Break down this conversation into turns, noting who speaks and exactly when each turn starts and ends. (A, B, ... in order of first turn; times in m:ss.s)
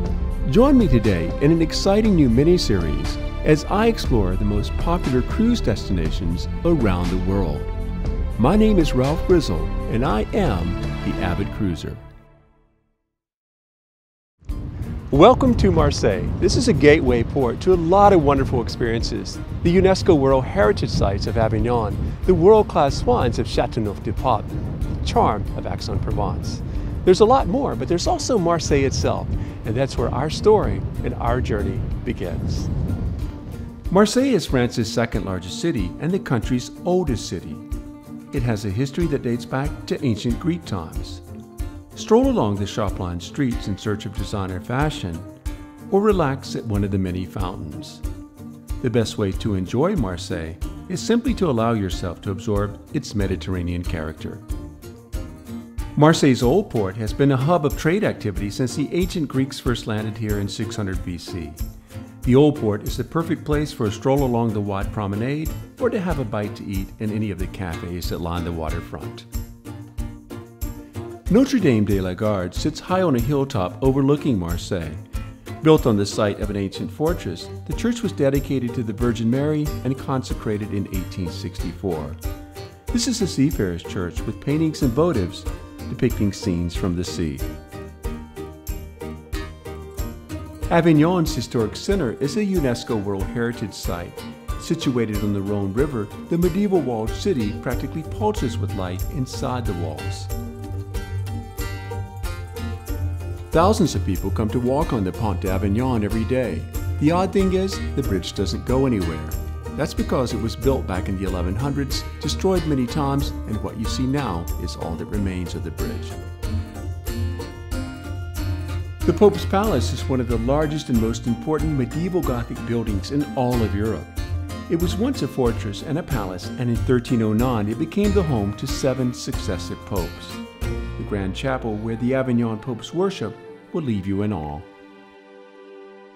0:00.4-0:07.7 A
0:08.4-0:12.0 A
0:15.1-0:32.7 A
0:33.9-0:37.7 A
0:38.3-0:41.2 A
0:41.9-0:45.3 A
0:45.9-0:48.0 A
0:48.8-0:54.4 A
0:56.0-1:01.6 A
1:02.2-1:09.3 A
1:11.3-1:15.0 A
1:15.6-1:22.2 A
1:22.9-1:27.5 A
1:30.7-1:40.3 A
1:43.5-1:56.2 A
1:59.0-2:04.1 A
2:04.7-2:10.4 A
2:11.0-2:14.7 A